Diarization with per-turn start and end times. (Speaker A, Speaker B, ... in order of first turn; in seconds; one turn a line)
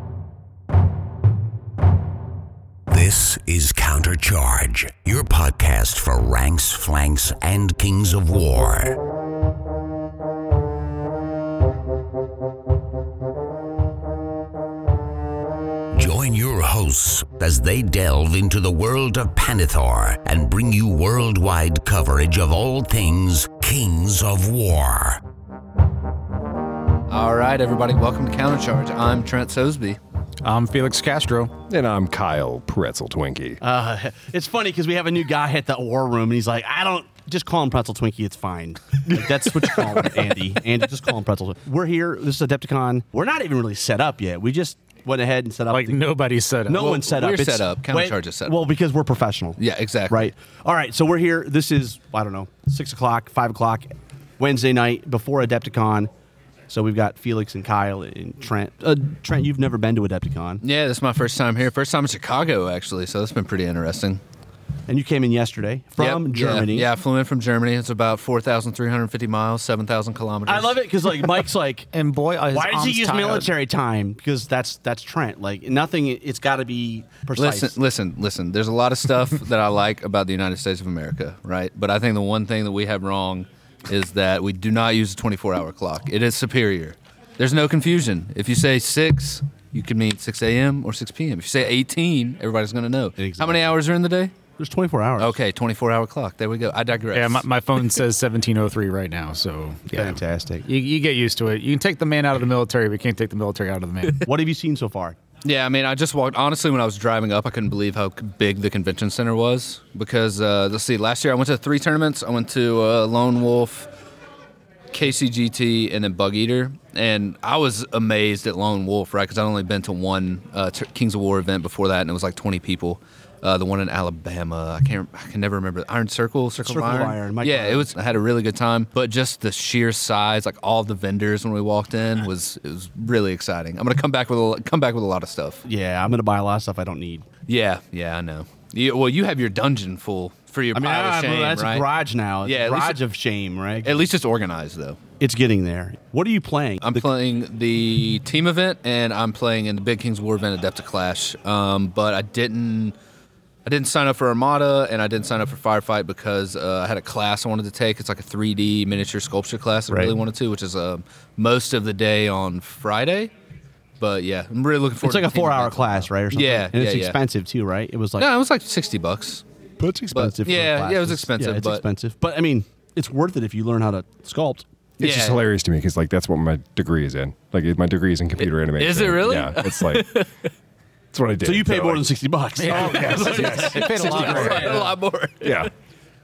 Speaker A: 2.9-9.0
Speaker A: 15.9-25.2
Speaker B: 27.1-30.0
Speaker C: 30.4-31.5
Speaker D: 31.7-33.6
Speaker E: 33.6-46.0
Speaker C: 45.7-47.0
Speaker E: 46.7-49.6
Speaker B: 46.7-48.7
Speaker B: 49.6-50.3
Speaker E: 50.1-56.1
Speaker E: 56.7-60.6
Speaker B: 60.6-64.2
Speaker E: 64.9-66.9
Speaker B: 66.0-70.8
Speaker E: 70.5-71.9
Speaker C: 71.9-73.5
Speaker E: 72.5-77.7
Speaker B: 77.3-94.3
Speaker E: 93.2-93.7
Speaker E: 94.6-95.3
Speaker B: 95.2-97.4
Speaker C: 97.1-104.3
Speaker E: 99.9-100.7
Speaker E: 104.2-105.2
Speaker B: 105.4-113.9
Speaker B: 114.9-135.6
Speaker E: 126.6-127.9
Speaker E: 135.6-137.2
Speaker B: 137.5-143.0
Speaker E: 140.7-144.0
Speaker B: 143.8-145.0
Speaker E: 145.2-147.1
Speaker B: 146.8-152.9
Speaker B: 153.6-163.3
Speaker E: 159.9-160.1
Speaker B: 164.0-167.2
Speaker E: 165.0-168.3
Speaker B: 168.2-169.4
Speaker E: 169.8-174.7
Speaker B: 170.1-171.8
Speaker B: 175.0-175.4
Speaker D: 175.0-180.2
Speaker B: 178.8-180.5
Speaker D: 181.1-182.1
Speaker E: 181.4-184.9
Speaker C: 182.6-184.9
Speaker B: 182.8-185.7
Speaker D: 182.8-184.8
Speaker D: 185.4-185.7